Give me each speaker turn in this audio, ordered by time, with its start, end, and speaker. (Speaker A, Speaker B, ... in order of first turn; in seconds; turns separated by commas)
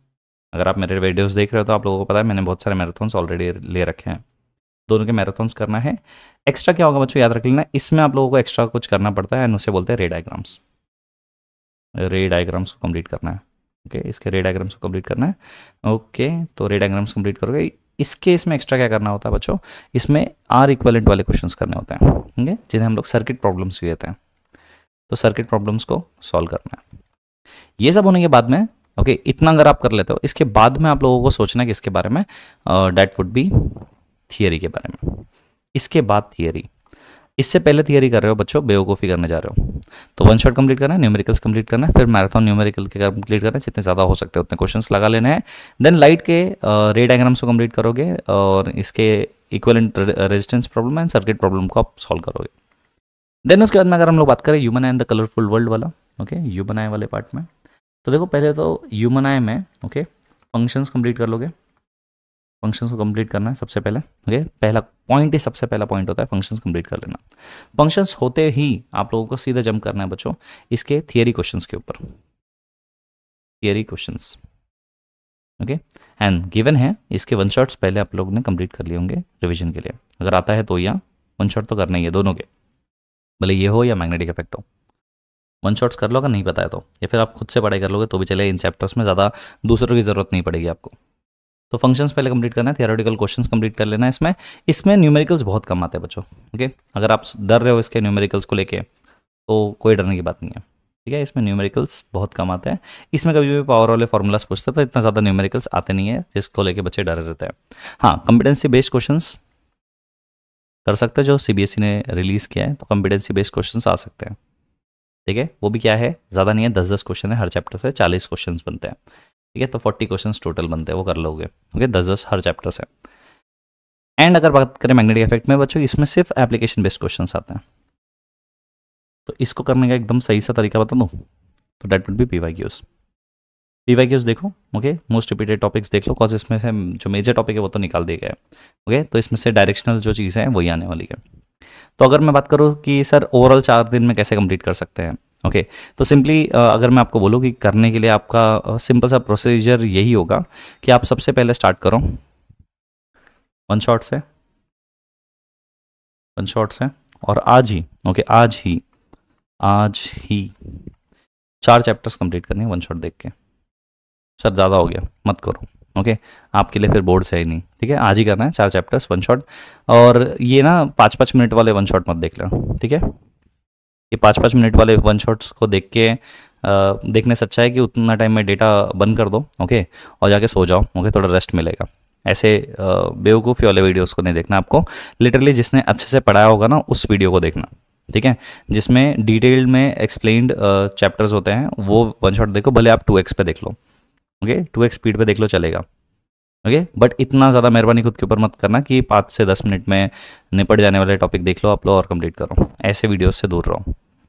Speaker A: 0.5-4.2, Speaker A: 4.9-10.6, Speaker A: 12.0-24.1, Speaker A: 25.1-26.8, Speaker A: 27.8-36.7, Speaker A: 37.4-52.5, Speaker A: 53.4-57.5, Speaker A: 58.0-61.5, Speaker A: 62.6-67.2, Speaker A: 67.8-72.0, Speaker A: 73.6-74.4, Speaker A: 75.6-82.5, Speaker A: 83.4-84.6, Speaker A: 85.6-90.9, Speaker A: 91.7-98.8, Speaker A: 99.5-109.4, Speaker A: 110.8-114.4, Speaker A: 115.2-119.0, Speaker A: 119.5-122.9, Speaker A: 124.2-127.6, Speaker A: 129.2-131.1, Speaker A: 131.8-132.8, Speaker A: 133.9-141.2, Speaker A: 142.0-152.2, Speaker A: 153.7-154.2, Speaker A: 156.3-158.8, Speaker A: 159.6-160.5, Speaker A: 161.6-163.3, Speaker A: 164.4-173.0, Speaker A: 174.1-193.7, Speaker A: 194.4-195.8, Speaker A: 196.6-203.9